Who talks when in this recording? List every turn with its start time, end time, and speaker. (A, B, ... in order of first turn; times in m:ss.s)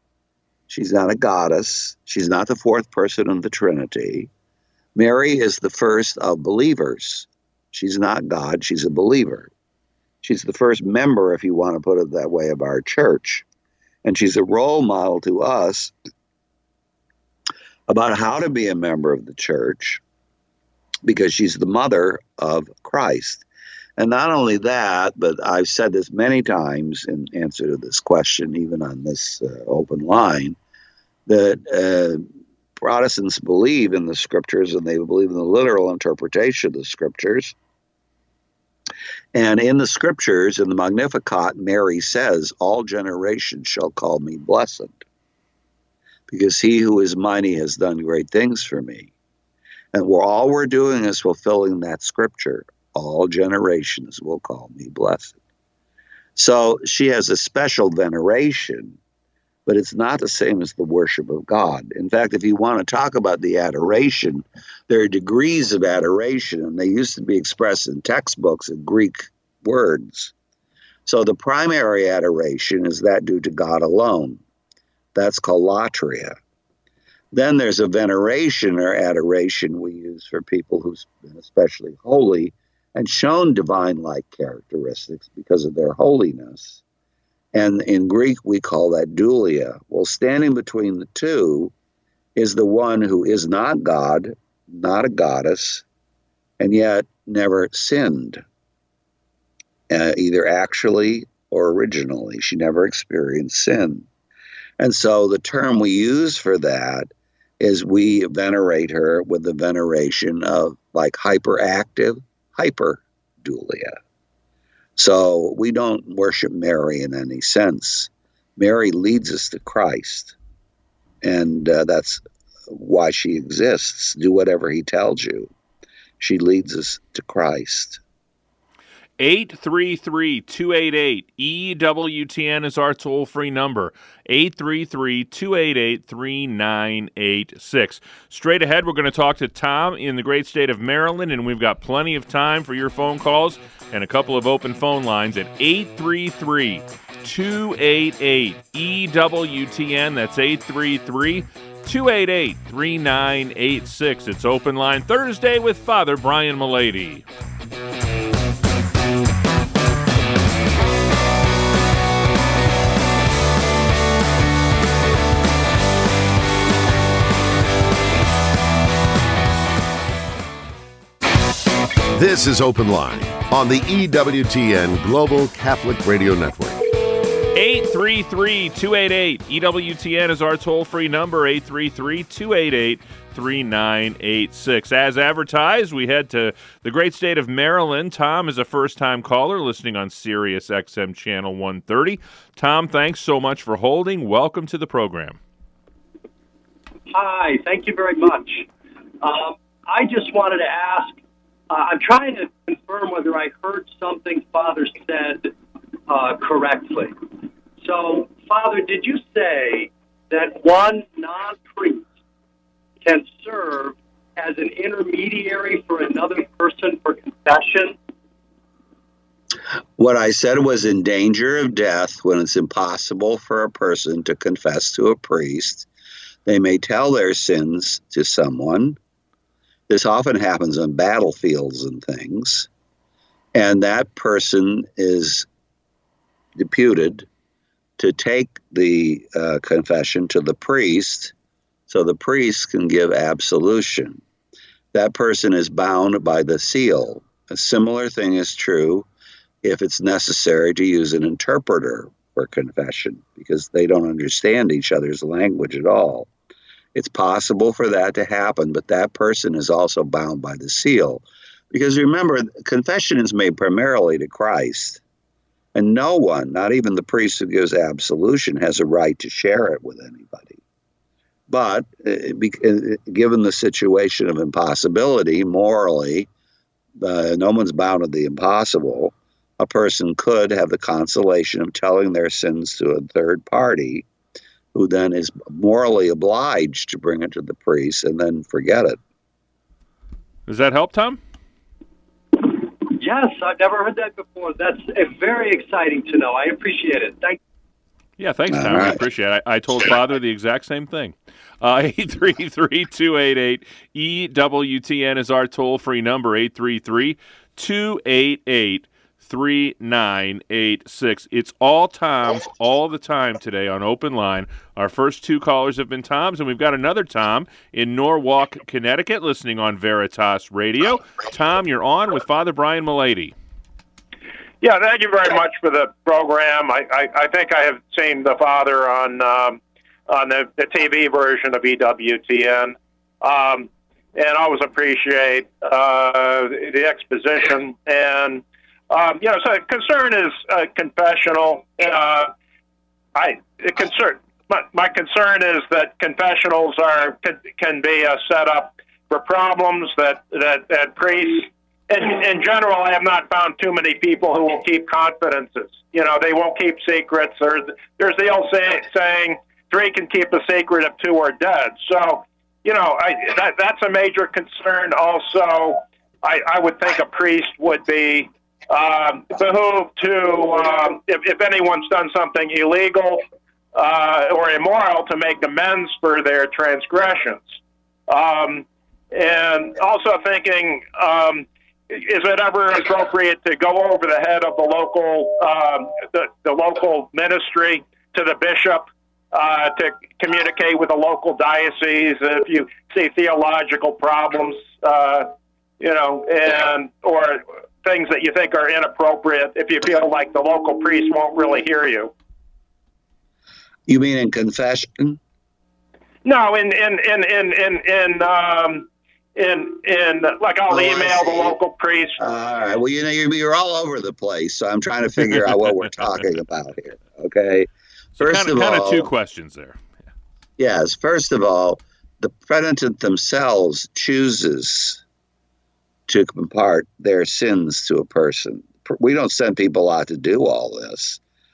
0:00.7-0:04.3 A
0:04.9-0:09.5 A
0:10.2-0:13.4 A
0:14.0-0:15.9 A
0:17.9-0:20.0 A
0:21.0-0:23.4 A
0:24.0-0:30.6 A
0:31.3-0:37.6 A
0:39.3-0:45.0 A
0:46.3-0:49.1 A
0:49.9-0:55.4 A
0:56.4-0:59.0 A
0:59.6-1:10.3 A
1:11.0-1:14.4 A
1:15.1-1:16.4 A
1:17.3-1:26.8 A
1:27.5-1:31.7 A
1:32.4-1:35.8 A
1:36.6-1:38.4 A
1:39.9-1:44.1 A
1:44.8-1:54.0 A
1:55.0-2:00.4 A
2:01.2-2:05.5 A
2:06.2-2:08.0 A
2:09.2-2:37.2 B
2:52.1-2:56.8 C
2:57.5-3:15.4 B
3:17.1-3:18.7 D
3:19.2-3:21.2 D
3:21.7-3:25.5 D
3:26.1-3:27.2 D
3:27.8-3:32.1 D
3:33.0-3:38.0 D
3:40.0-3:45.9 A
3:46.4-3:49.0 A
3:49.9-3:52.7 A
3:53.5-3:55.5 A
3:56.6-3:57.3 A
3:58.0-4:01.3 A
4:01.9-4:04.2 A
4:04.9-4:09.1 A
4:09.6-4:16.3 A
4:16.9-4:25.0 A
4:25.7-4:30.6 A
4:31.5-4:36.3 A
4:37.0-4:44.0 A
4:44.7-4:49.0 A
4:50.5-4:51.2 B
4:52.4-4:57.4 D
4:58.2-5:23.3 B
4:58.5-4:59.0 A
5:24.6-5:42.3 E
5:43.1-6:17.4 E
6:18.1-6:42.1 E
6:43.9-6:45.2 A
6:46.2-6:52.2 E
6:50.7-6:51.6 A
6:52.2-6:59.1 A
6:58.2-6:59.8 B
7:00.6-7:05.0 A
7:06.1-7:11.2 A